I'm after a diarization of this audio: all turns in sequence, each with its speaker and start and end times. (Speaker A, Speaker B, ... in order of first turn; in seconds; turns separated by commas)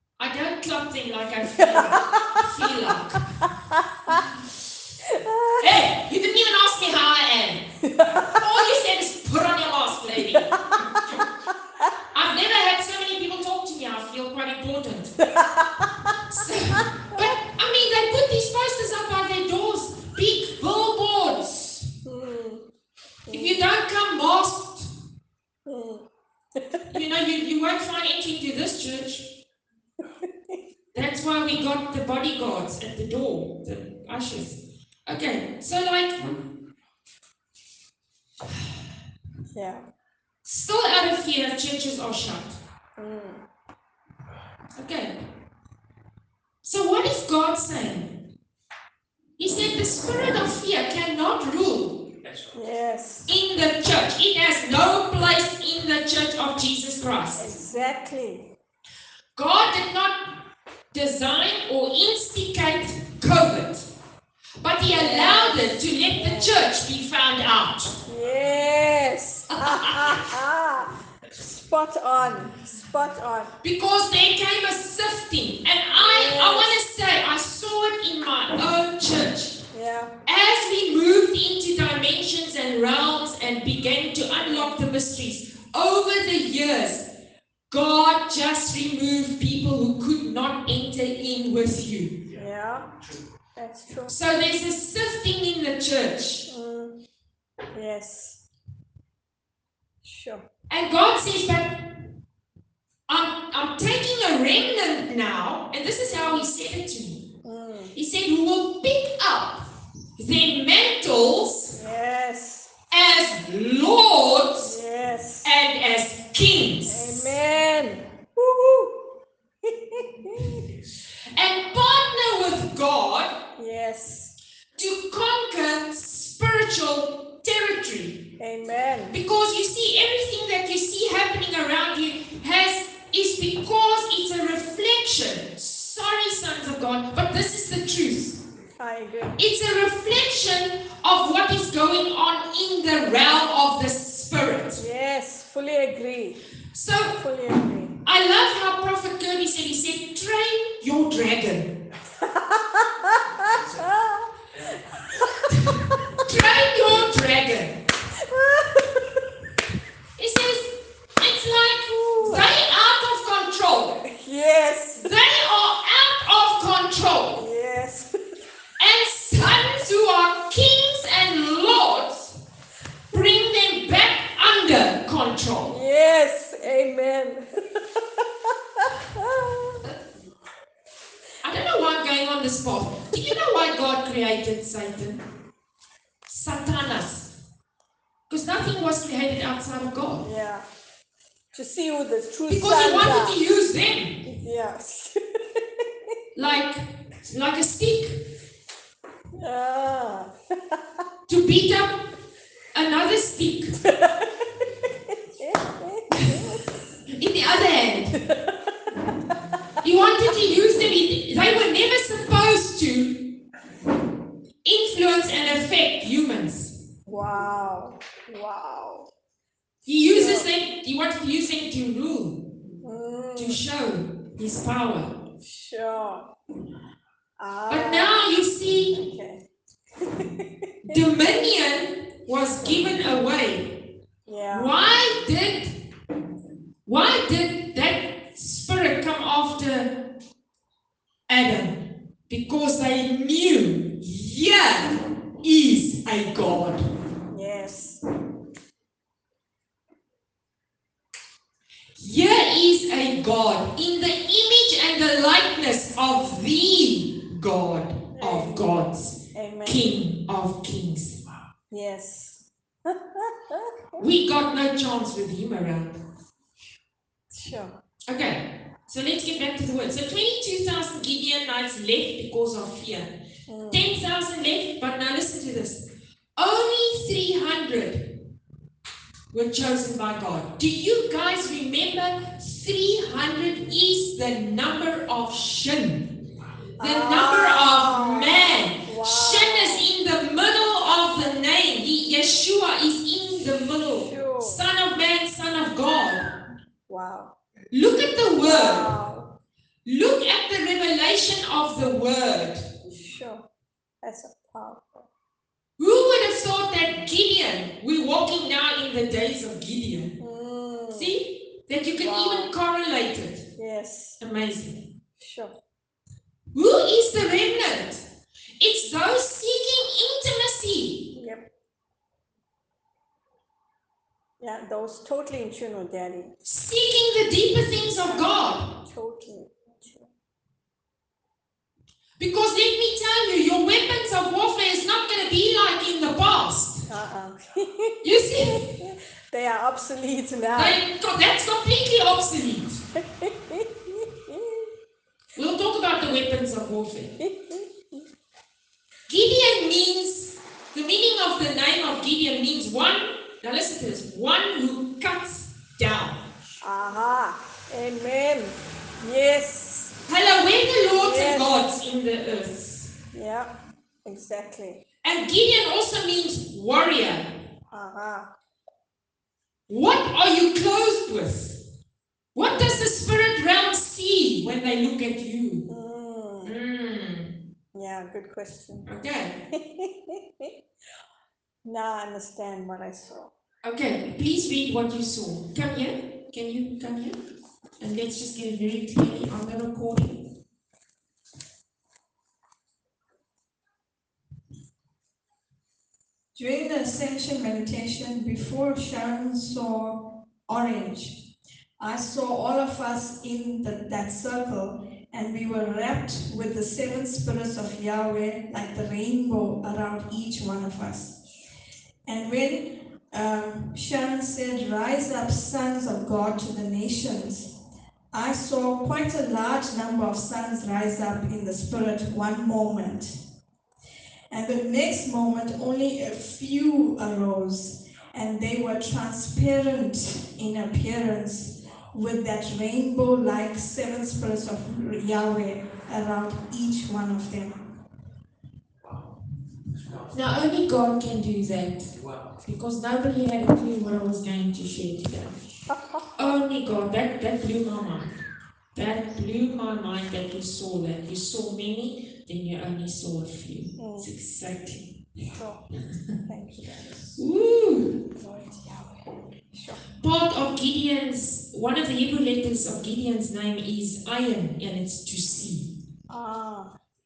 Speaker A: 0.2-3.3, Speaker B: 1.6-2.1, Speaker B: 5.1-5.6, Speaker A: 5.6-7.6, Speaker B: 7.8-8.4, Speaker A: 8.2-10.6, Speaker A: 12.1-15.2, Speaker B: 15.2-15.9, Speaker A: 16.3-21.9, Speaker B: 22.1-22.7, Speaker B: 23.3-23.6, Speaker A: 23.3-24.9, Speaker B: 25.7-26.8, Speaker A: 26.9-29.2, Speaker B: 30.2-30.6, Speaker A: 30.9-36.3, Speaker B: 39.5-39.8, Speaker A: 40.5-42.6, Speaker B: 43.0-43.5, Speaker A: 44.8-45.2, Speaker A: 46.6-48.1, Speaker A: 49.4-52.1, Speaker B: 52.5-53.3, Speaker A: 53.3-57.5, Speaker B: 57.4-58.5, Speaker A: 59.4-60.2, Speaker A: 60.9-63.9, Speaker A: 64.6-68.0, Speaker B: 64.9-66.6, Speaker B: 68.0-73.5, Speaker A: 69.5-70.1, Speaker A: 73.6-79.5, Speaker B: 75.9-76.8, Speaker B: 79.7-80.1, Speaker A: 80.3-87.0, Speaker B: 84.4-84.8, Speaker A: 87.7-92.2, Speaker B: 92.3-92.9, Speaker B: 93.6-94.1, Speaker A: 94.1-96.5, Speaker B: 96.5-97.0, Speaker B: 97.7-98.4, Speaker B: 100.0-100.5, Speaker A: 100.7-101.8, Speaker A: 103.1-107.2, Speaker B: 107.4-108.0, Speaker A: 108.0-109.7, Speaker A: 110.2-111.8, Speaker B: 111.7-112.7, Speaker A: 112.9-114.8, Speaker B: 114.6-115.5, Speaker A: 115.4-117.4, Speaker B: 116.8-119.0, Speaker B: 119.6-120.7, Speaker A: 121.3-123.3, Speaker B: 123.6-124.3, Speaker A: 124.8-128.2, Speaker B: 128.4-129.2, Speaker A: 129.1-138.4, Speaker B: 138.8-139.4, Speaker A: 139.4-144.8, Speaker B: 144.8-146.4, Speaker A: 146.7-147.2, Speaker B: 147.2-147.9, Speaker A: 148.1-151.8, Speaker B: 152.2-156.2, Speaker A: 155.5-157.8, Speaker B: 158.3-159.2, Speaker A: 160.2-164.0, Speaker B: 161.9-162.5, Speaker B: 164.0-165.1, Speaker A: 165.0-167.4, Speaker B: 167.4-168.1, Speaker A: 168.8-172.3, Speaker A: 173.1-175.8, Speaker B: 175.7-178.2, Speaker B: 178.8-179.8, Speaker A: 181.4-185.2, Speaker A: 186.3-187.3, Speaker A: 188.3-190.3, Speaker B: 190.2-190.7, Speaker B: 191.5-193.4, Speaker A: 192.5-194.2, Speaker B: 194.2-195.8, Speaker A: 196.3-198.2, Speaker B: 199.4-201.0, Speaker A: 201.3-201.9, Speaker A: 202.7-203.8, Speaker B: 203.8-204.6, Speaker B: 205.4-206.7, Speaker A: 206.1-206.5, Speaker A: 207.2-208.2, Speaker B: 208.2-208.5, Speaker A: 209.8-213.3, Speaker A: 214.7-216.8, Speaker B: 217.1-219.1, Speaker A: 219.9-222.5, Speaker B: 220.1-220.5, Speaker B: 222.8-223.6, Speaker A: 223.4-225.1, Speaker B: 225.4-226.3, Speaker B: 227.4-229.4, Speaker A: 227.7-229.0, Speaker B: 230.0-231.0, Speaker A: 230.9-233.7, Speaker B: 234.3-234.7, Speaker A: 234.5-235.8, Speaker A: 236.9-240.0, Speaker A: 241.3-246.9, Speaker B: 247.3-248.0, Speaker A: 252.0-261.2, Speaker B: 258.2-259.9, Speaker B: 261.7-264.1, Speaker A: 264.0-266.0, Speaker B: 267.3-267.8, Speaker A: 268.1-273.1, Speaker B: 273.5-273.9, Speaker A: 273.7-275.8, Speaker A: 276.4-278.1, Speaker A: 279.3-286.1, Speaker B: 286.8-289.9, Speaker A: 286.8-296.3, Speaker B: 294.0-294.6, Speaker B: 296.9-297.4, Speaker A: 297.7-298.9, Speaker B: 298.4-299.3, Speaker A: 299.9-302.6, Speaker B: 302.8-303.5, Speaker B: 304.0-305.1, Speaker A: 305.8-310.2, Speaker B: 310.2-311.1, Speaker A: 310.9-313.4, Speaker B: 312.0-312.5, Speaker B: 313.6-314.2, Speaker A: 314.2-314.9, Speaker B: 315.2-315.6, Speaker A: 316.5-318.0, Speaker A: 318.6-321.1, Speaker B: 321.1-321.5, Speaker B: 324.4-326.4, Speaker A: 326.4-328.7, Speaker B: 328.0-330.1, Speaker A: 332.2-336.9, Speaker B: 336.9-340.8, Speaker A: 338.0-338.7, Speaker A: 340.5-342.8, Speaker B: 343.1-344.7, Speaker A: 345.4-347.1, Speaker B: 347.2-348.1, Speaker A: 349.1-356.2, Speaker B: 356.6-360.0, Speaker A: 360.1-362.9, Speaker B: 360.9-361.6, Speaker B: 363.1-363.5, Speaker B: 364.1-364.8, Speaker A: 365.0-367.3, Speaker B: 367.7-368.3, Speaker A: 369.7-371.6, Speaker A: 372.4-375.7, Speaker B: 375.7-376.5, Speaker A: 376.4-377.3, Speaker B: 377.7-378.9, Speaker A: 378.9-379.4, Speaker B: 379.5-380.5, Speaker B: 381.6-383.3, Speaker A: 383.6-387.2, Speaker A: 387.8-390.2, Speaker C: 396.4-401.2, Speaker C: 401.8-411.1, Speaker C: 412.1-417.5, Speaker C: 418.1-423.2, Speaker C: 424.3-437.6, Speaker A: 440.1-445.4, Speaker A: 446.2-448.1, Speaker A: 448.8-454.9, Speaker B: 453.8-454.1, Speaker B: 455.3-455.6, Speaker B: 456.3-457.2, Speaker A: 457.2-458.0, Speaker B: 458.2-458.9, Speaker B: 459.5-459.8, Speaker A: 460.0-465.7, Speaker B: 466.1-466.8